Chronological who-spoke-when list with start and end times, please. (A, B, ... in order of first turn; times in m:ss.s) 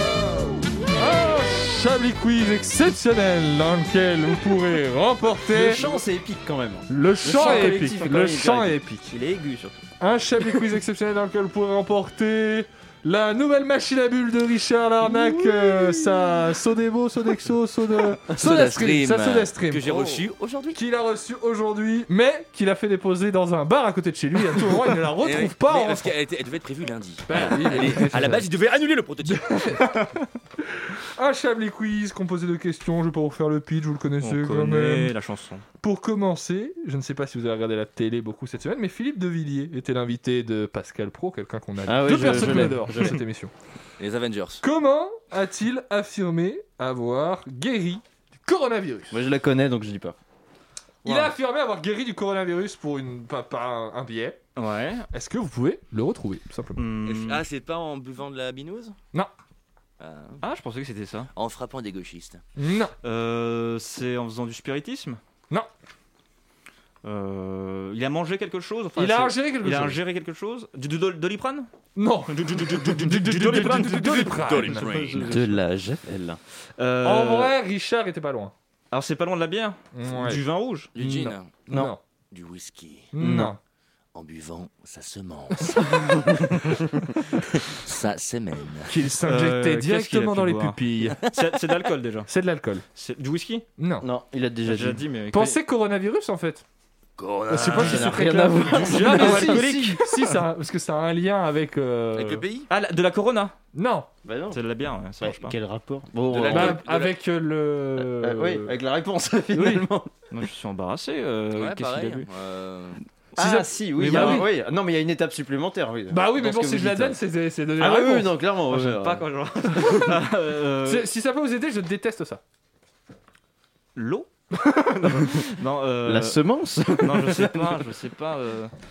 0:01.0-0:05.8 A
0:05.5-0:08.8 B
0:06.9-0:09.1 A
0:07.3-0:07.8 C
0:09.1-0:09.8 C
0:10.0-0:20.2 A
0:15.0-0:16.3 B
0:18.3-0:20.8 D
0:20.7-0:26.1 A
0:25.2-0:29.9 D
0:27.3-0:28.5 A
0:29.2-0:30.0 A
0:30.8-0:35.1 A
0:34.2-0:35.6 C
0:35.8-0:43.5 A
0:41.8-0:43.2 B
0:44.0-0:44.6 D
0:44.6-0:49.2 A
0:49.1-0:50.2 B
0:51.0-0:51.3 B
0:51.0-0:54.4 A
0:54.6-0:55.1 C
0:55.1-0:56.8 A
0:56.8-0:57.4 C
0:57.0-0:59.0 D
1:00.0-1:00.4 D
1:00.4-1:01.3 C
1:01.3-1:02.4 D
1:02.6-1:02.9 A
1:03.0-1:05.2 C
1:07.0-1:11.7 C
1:09.0-1:10.0 A
1:12.0-1:15.0 A
1:12.3-1:15.5 C
1:13.3-1:15.4 D
1:15.2-1:16.4 B
1:16.8-1:17.5 C
1:17.0-1:18.5 A
1:18.9-1:20.9 C
1:19.9-1:20.4 A
1:21.0-1:21.6 D
1:21.0-1:22.0 A
1:22.3-1:23.1 D
1:23.1-1:23.6 A
1:23.2-1:23.5 B
1:24.1-1:26.5 D
1:27.5-1:28.9 D
1:28.9-1:31.2 A
1:29.2-1:32.3 C
1:32.3-1:32.8 A
1:33.0-1:33.6 C
1:33.8-1:34.0 A
1:34.0-1:35.0 B
1:34.7-1:35.6 C
1:35.3-1:36.6 A
1:37.2-1:38.0 D
1:37.5-1:42.4 A
1:37.7-1:39.9 B
1:38.7-1:40.3 C
1:42.1-1:42.7 D
1:42.7-1:43.5 C
1:43.7-1:44.1 A
1:44.2-1:44.6 B
1:44.5-1:45.6 C
1:45.2-1:46.8 B
1:46.3-1:47.1 D
1:46.5-1:48.7 A
1:48.0-1:50.1 B
1:49.5-1:49.8 A
1:50.3-1:52.3 C
1:51.5-1:53.0 D
1:53.4-1:57.2 B
1:53.4-1:54.5 A
1:54.0-1:54.4 C
1:56.1-1:58.3 A
1:57.8-2:00.0 B
1:58.7-2:01.1 C
2:00.8-2:02.4 A
2:03.9-2:04.3 C
2:04.6-2:04.9 A
2:05.1-2:06.4 C
2:06.0-2:07.8 B
2:07.0-2:08.7 C